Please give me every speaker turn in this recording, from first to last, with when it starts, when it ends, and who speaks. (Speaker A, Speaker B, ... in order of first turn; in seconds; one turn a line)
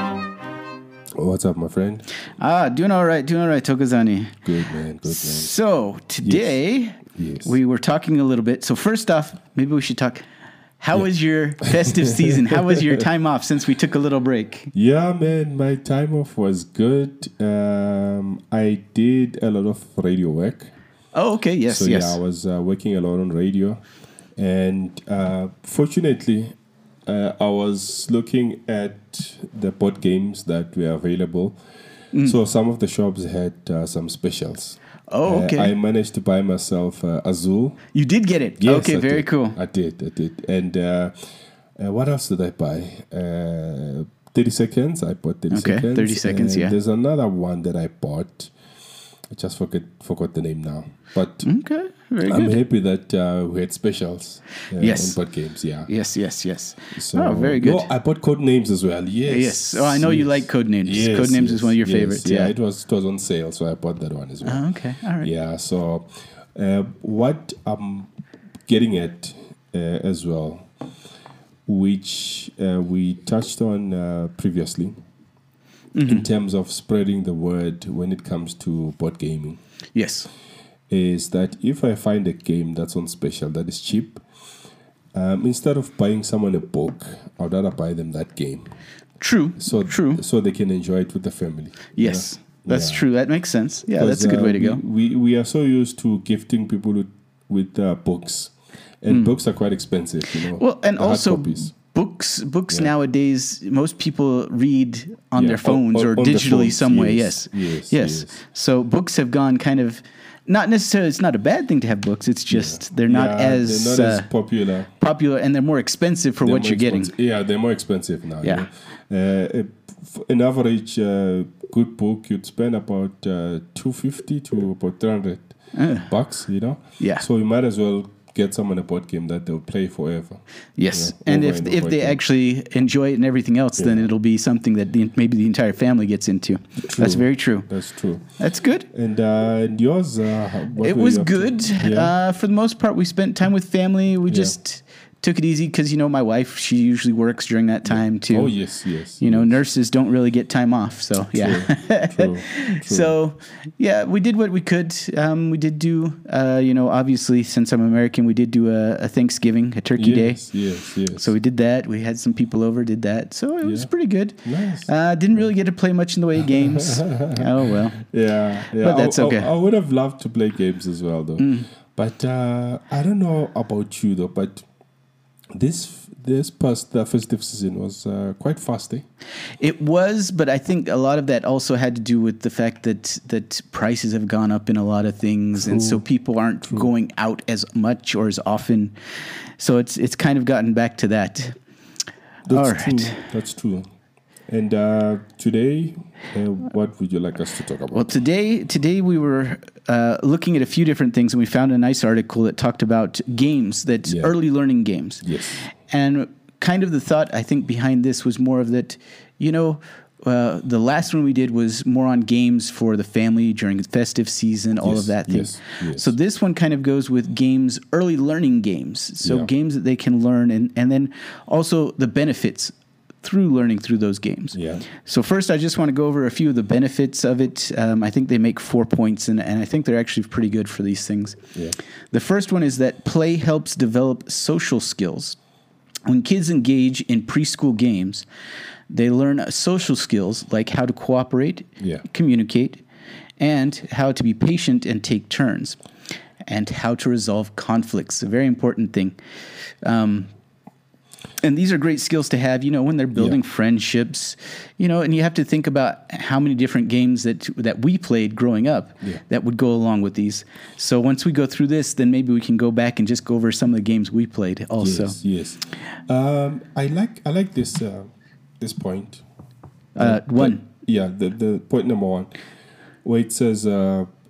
Speaker A: 1.2-2.1
Speaker B: 2.4-4.4
Speaker A: 4.4-5.5
Speaker B: 5.0-10.2
Speaker A: 6.2-7.5
Speaker B: 10.8-14.7
Speaker A: 11.7-13.0
Speaker A: 14.7-20.7
Speaker B: 21.1-22.2
Speaker A: 21.7-23.8
Speaker A: 24.4-26.5
Speaker A: 27.1-31.6
Speaker A: 32.2-37.8
Speaker B: 35.1-35.7
Speaker B: 37.9-39.6
Speaker A: 38.6-41.1
Speaker A: 41.8-48.5
Speaker B: 45.5-46.8
Speaker A: 49.3-51.5
Speaker B: 51.4-52.6
Speaker A: 52.2-55.9
Speaker B: 54.8-55.2
Speaker B: 55.9-57.8
Speaker A: 56.9-64.6
Speaker B: 59.3-62.5
Speaker B: 64.4-65.3
Speaker A: 65.2-68.1
Speaker A: 68.7-70.7
Speaker A: 71.7-74.9
Speaker B: 75.9-76.2
Speaker A: 76.0-79.6
Speaker B: 79.9-80.3
Speaker A: 80.9-84.2
Speaker A: 85.1-88.7
Speaker B: 89.2-90.2
Speaker A: 89.6-93.1
Speaker B: 92.0-94.8
Speaker A: 93.9-101.7
Speaker B: 100.5-114.3
Speaker A: 105.3-108.4
Speaker A: 112.5-114.9
Speaker B: 115.0-117.1
Speaker A: 116.4-125.5
Speaker B: 125.7-126.1
Speaker A: 126.0-132.2
Speaker B: 130.8-137.7
Speaker A: 133.8-134.1
Speaker A: 136.8-138.2
Speaker B: 138.4-138.9
Speaker A: 138.9-142.2
Speaker B: 140.8-148.6
Speaker A: 144.3-144.6
Speaker A: 147.8-149.6
Speaker B: 149.2-160.4
Speaker A: 151.3-153.1
Speaker A: 159.9-161.3
Speaker B: 161.2-168.0
Speaker A: 163.6-163.9
Speaker A: 164.4-165.5
Speaker A: 166.4-174.7
Speaker B: 168.8-169.5
Speaker B: 171.4-171.7
Speaker A: 175.5-179.0
Speaker B: 179.6-188.9
Speaker A: 185.6-186.0
Speaker B: 189.6-191.6
Speaker A: 192.4-193.8
Speaker B: 192.5-193.2
Speaker A: 194.5-198.1
Speaker B: 197.9-231.4
Speaker A: 204.1-204.3
Speaker A: 205.2-205.6
Speaker A: 214.8-216.1
Speaker A: 219.2-219.5
Speaker A: 224.5-224.9
Speaker B: 232.1-235.4
Speaker B: 236.1-238.2
Speaker B: 238.9-242.8
Speaker A: 241.8-242.0
Speaker B: 243.4-245.8
Speaker B: 246.4-249.2
Speaker B: 249.8-250.3
Speaker B: 251.4-265.2
Speaker A: 264.8-268.1
Speaker A: 268.6-269.2
Speaker B: 269.9-270.6
Speaker A: 270.0-272.3
Speaker A: 273.0-274.1